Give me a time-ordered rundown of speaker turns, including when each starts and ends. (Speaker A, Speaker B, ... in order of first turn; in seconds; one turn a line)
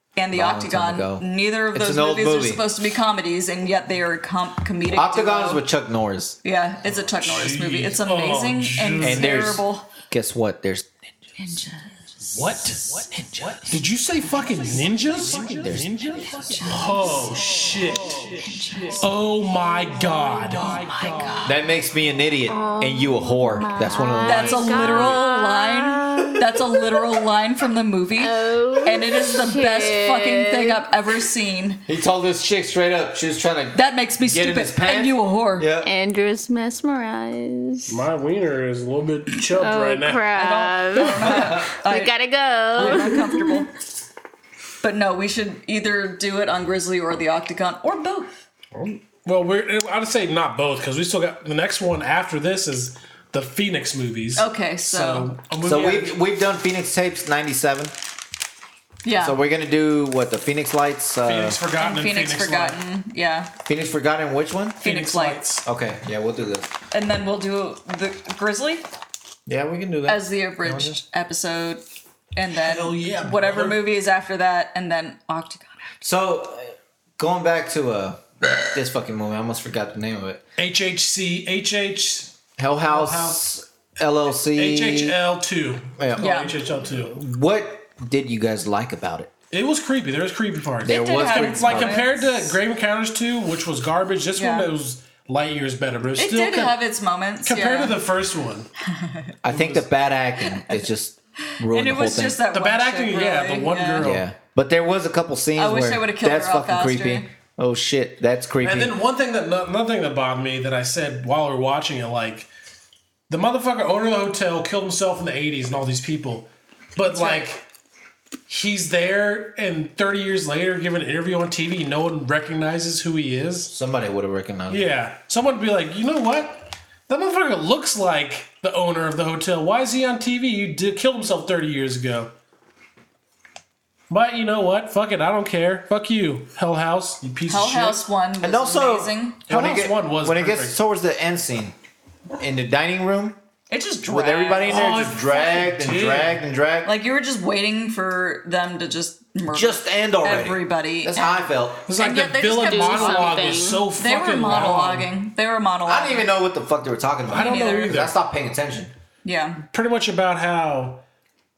Speaker A: 0.1-5.6
Speaker B: 0.3-2.6
Speaker B: 4.9-6.4
Speaker A: 6.4-9.9
Speaker C: 7.1-9.4
Speaker B: 9.0-10.9
Speaker A: 11.4-12.4
Speaker C: 12.2-21.5
Speaker B: 12.7-13.8
Speaker B: 15.2-15.9
Speaker A: 16.3-17.6
Speaker A: 18.4-19.1
Speaker A: 20.5-21.6
Speaker B: 21.4-25.1
Speaker D: 22.5-27.0
Speaker A: 24.2-31.8
Speaker D: 28.2-30.9
Speaker B: 31.9-35.9
Speaker A: 33.7-35.7
Speaker D: 35.8-38.0
Speaker C: 37.9-40.4
Speaker D: 39.5-43.6
Speaker A: 40.4-42.1
Speaker B: 41.3-41.6
Speaker A: 42.7-43.7
Speaker C: 42.8-43.1
Speaker A: 44.8-48.4
Speaker C: 48.7-56.2
Speaker A: 54.4-55.3
Speaker B: 55.6-58.0
Speaker A: 59.0-59.4
Speaker B: 59.1-61.6
Speaker C: 61.2-62.8
Speaker A: 61.8-63.5
Speaker B: 63.6-64.8
Speaker A: 64.8-65.4
Speaker C: 64.8-65.6
Speaker B: 65.6-66.7
Speaker A: 66.9-68.9
Speaker B: 69.5-71.0
Speaker A: 70.0-71.8
Speaker A: 72.3-75.8
Speaker C: 72.5-73.8
Speaker B: 76.0-80.4
Speaker C: 80.6-83.4
Speaker B: 82.6-85.2
Speaker C: 84.5-87.2
Speaker B: 86.0-86.3
Speaker A: 86.2-86.6
Speaker B: 86.8-89.3
Speaker C: 89.5-96.8
Speaker B: 90.8-92.1
Speaker A: 90.8-92.5
Speaker A: 94.3-94.7
Speaker A: 96.2-98.0
Speaker C: 97.4-98.7
Speaker A: 98.9-99.3
Speaker B: 99.4-102.4
Speaker C: 99.4-99.9
Speaker A: 100.4-100.9
Speaker A: 101.5-104.1
Speaker C: 102.5-104.3
Speaker B: 104.0-108.9
Speaker A: 105.5-107.3
Speaker C: 108.6-112.5
Speaker C: 113.3-117.7
Speaker A: 117.0-117.5
Speaker C: 118.5-123.7
Speaker B: 123.7-124.9
Speaker C: 124.7-132.3
Speaker C: 134.1-138.0
Speaker A: 137.5-139.4
Speaker B: 138.4-141.7
Speaker C: 139.5-140.8
Speaker B: 142.4-143.4
Speaker A: 143.7-145.0
Speaker B: 144.1-146.9
Speaker C: 144.6-146.4
Speaker A: 146.8-151.4
Speaker B: 149.5-151.8
Speaker C: 151.8-155.1
Speaker A: 152.0-153.4
Speaker D: 152.6-153.8
Speaker A: 153.9-156.3
Speaker B: 155.8-158.9
Speaker C: 157.3-158.2
Speaker A: 157.3-157.9
Speaker A: 159.2-159.6
Speaker C: 159.7-161.0